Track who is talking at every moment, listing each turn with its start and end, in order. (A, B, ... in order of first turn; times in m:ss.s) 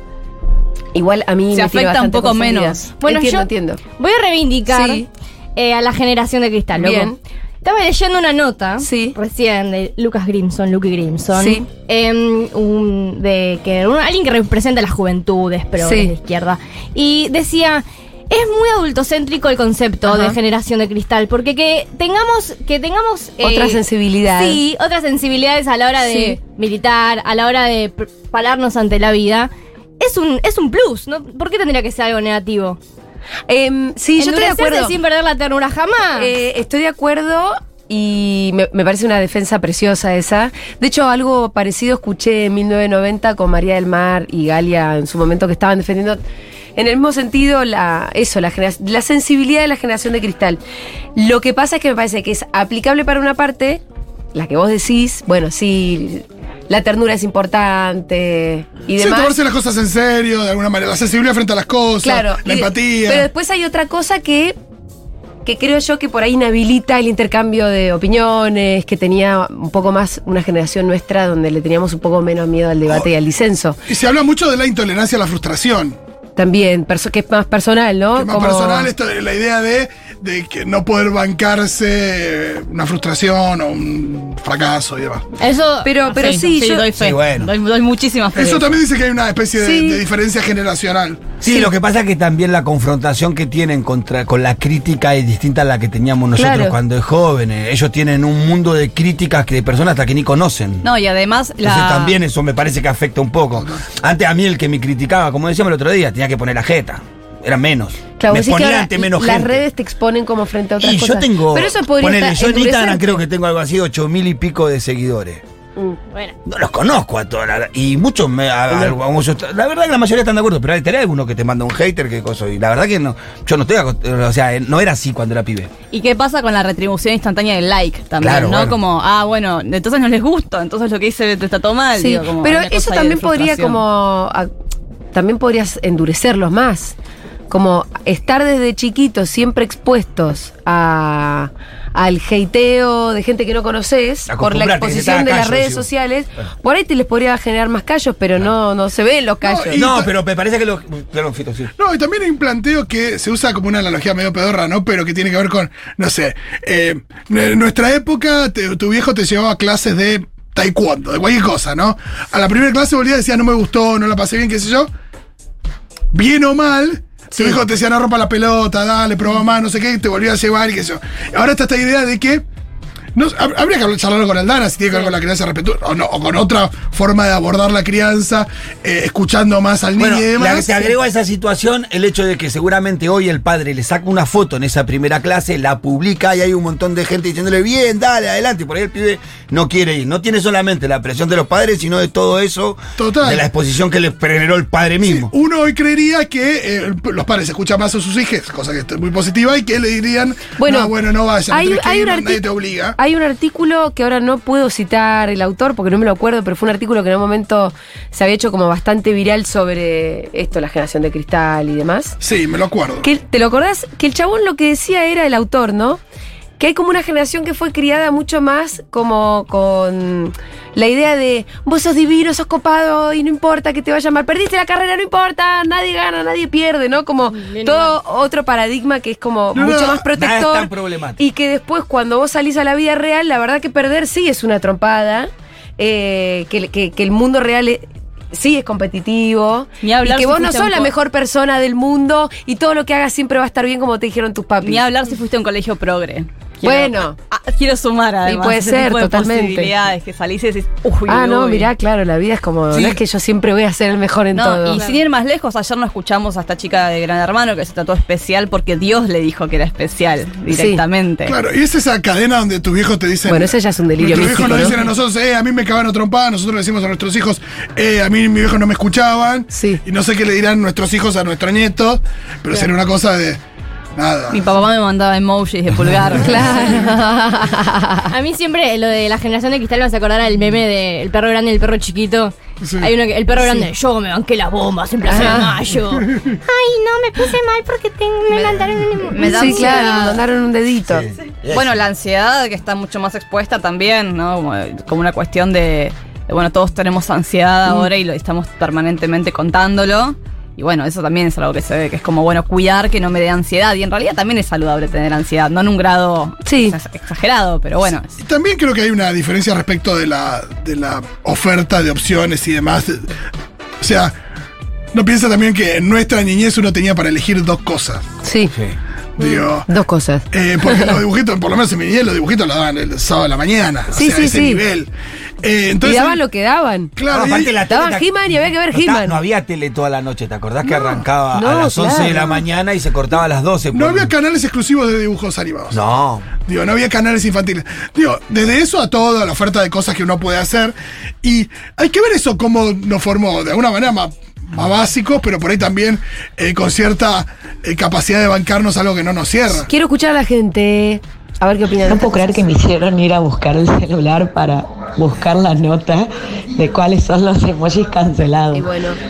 0:00.9-0:03.8 A
0:01.5-0:02.8 B
0:03.0-0:05.0 C
0:04.7-0:05.1 A
0:05.6-0:32.8 C
0:06.7-0:07.2 A
0:08.8-0:09.2 A
0:11.3-0:11.6 A
0:15.8-0:16.1 A
0:20.0-0:20.4 A
0:23.4-0:24.6 A
0:26.0-0:26.4 A
0:33.5-0:34.9 A
0:34.2-0:36.3 C
0:36.1-0:46.2 A
0:46.8-0:50.6 A
0:51.2-0:53.8 A
0:54.3-0:59.4 A
0:59.0-1:03.3 D
1:02.0-1:04.6 A
1:05.4-1:13.8 A
1:13.9-1:16.0 D
1:16.4-1:18.9 A
1:18.2-1:25.2 D
1:25.4-1:26.5 C
1:25.8-1:26.9 A
1:26.1-1:28.8 B
1:26.9-1:27.5 E
1:28.3-1:31.3 D
1:29.6-1:30.0 A
1:31.4-1:40.9 E
1:31.4-1:31.7 A
1:36.4-1:36.8 A
1:40.8-1:42.2 B
1:41.6-1:49.6 E
1:48.2-1:53.2 A
1:50.8-1:55.4 E
1:56.1-1:56.3 C
1:56.4-2:05.7 E
2:05.9-2:13.8 B
2:08.2-2:08.8 E
2:12.0-2:14.5 A
2:15.1-2:17.0 A
2:17.5-2:29.8 A
2:24.3-2:25.9 E
2:29.4-2:30.1 D
2:29.7-2:31.7 E
2:31.8-2:44.9 D
2:46.1-2:52.4 D
2:47.3-2:47.6 A
2:53.1-3:00.9 D
3:00.0-3:15.3 E
3:13.0-3:13.4 D
3:15.0-3:23.0 D
3:20.6-3:20.9 A
3:21.5-3:32.2 A
3:32.2-3:33.0 D
3:33.0-3:36.0 A
3:36.6-4:04.8 A
3:47.3-3:47.9 C
3:49.5-3:50.0 D
3:50.1-3:51.2 E
3:59.8-4:00.9 B
4:04.6-4:11.7 B
4:06.6-4:07.2 A
4:08.2-4:09.7 A
4:11.1-4:14.8 A
4:14.3-4:21.3 B
4:20.5-4:20.8 A
4:21.2-4:33.4 D
4:23.3-4:24.8 A
4:29.5-4:29.8 A
4:34.0-4:34.4 D
4:34.3-4:36.8 B
4:36.2-4:38.1 A
4:38.1-4:50.2 C
4:42.6-4:42.9 D
4:43.4-4:43.7 A
4:45.1-4:45.6 A
4:48.3-4:50.2 B
4:49.2-4:51.0 A
4:50.9-4:51.8 E
4:51.5-5:08.1 B
5:06.5-5:06.8 A
5:08.2-5:13.1 D
5:13.8-5:14.1 D
5:14.9-5:18.0 D
5:18.2-5:18.5 A
5:19.2-5:19.7 D
5:19.2-5:21.0 A
5:20.3-5:24.9 D
5:23.9-5:24.6 A
5:25.4-5:26.2 D
5:25.8-5:26.9 A
5:27.0-5:27.6 D
5:27.1-5:34.1 E
5:27.6-5:29.1 A
5:30.6-5:32.4 A
5:33.7-5:35.8 D
5:35.7-5:36.3 E
5:36.4-5:49.7 D
5:49.7-5:52.4 A
5:51.8-5:58.7 F
5:58.5-5:59.0 A